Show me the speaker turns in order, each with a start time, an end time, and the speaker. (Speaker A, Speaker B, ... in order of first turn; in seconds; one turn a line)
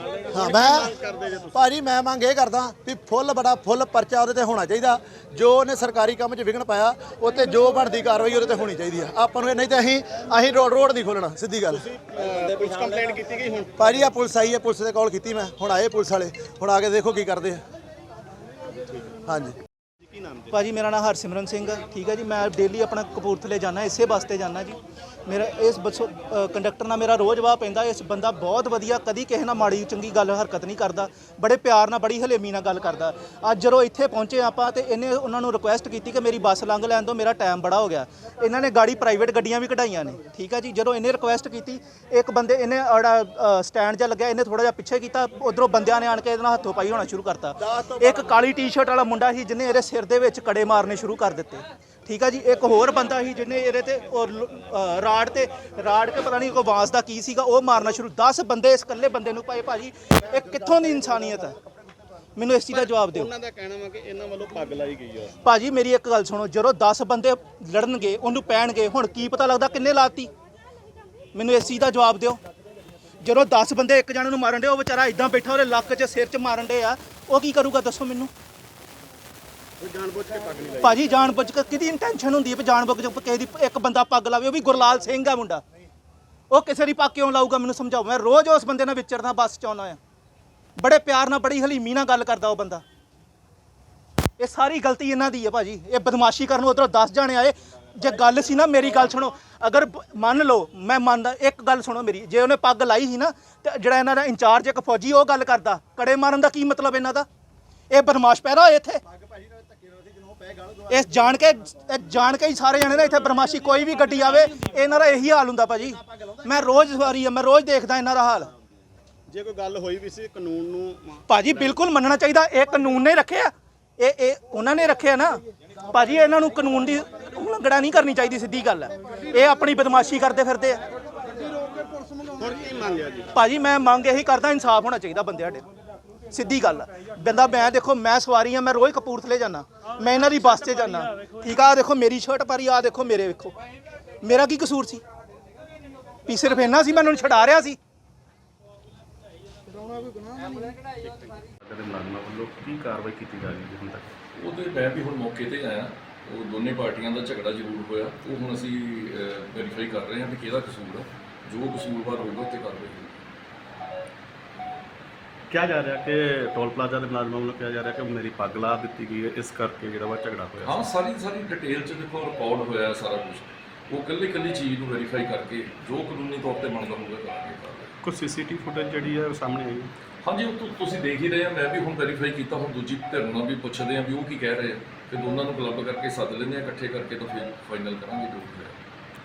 Speaker A: 0.3-0.9
Speaker B: 0.3-1.7
Speaker A: 1.5-11.9
Speaker B: 11.7-13.7
Speaker A: 13.8-17.6
Speaker A: 19.2-19.6
Speaker B: 20.0-20.5
Speaker C: 20.5-61.6
Speaker A: 47.6-48.3
Speaker C: 62.4-63.3
Speaker B: 62.7-65.4
Speaker C: 65.4-70.3
Speaker C: 71.3-72.4
Speaker C: 73.2-78.3
Speaker B: 79.8-81.0
Speaker C: 80.8-85.6
Speaker C: 86.5-90.0
Speaker C: 90.8-92.8
Speaker C: 94.4-107.2
Speaker C: 107.9-109.0
Speaker C: 110.9-118.5
Speaker B: 119.3-121.2
Speaker C: 121.3-130.8
Speaker B: 132.4-133.3
Speaker C: 133.3-135.6
Speaker C: 136.3-143.5
Speaker C: 144.2-145.0
Speaker C: 146.3-147.8
Speaker D: 151.6-154.1
Speaker E: 154.3-163.1
Speaker D: 165.5-170.9
Speaker E: 170.6-177.9
Speaker D: 178.0-179.9
Speaker E: 180.3-188.7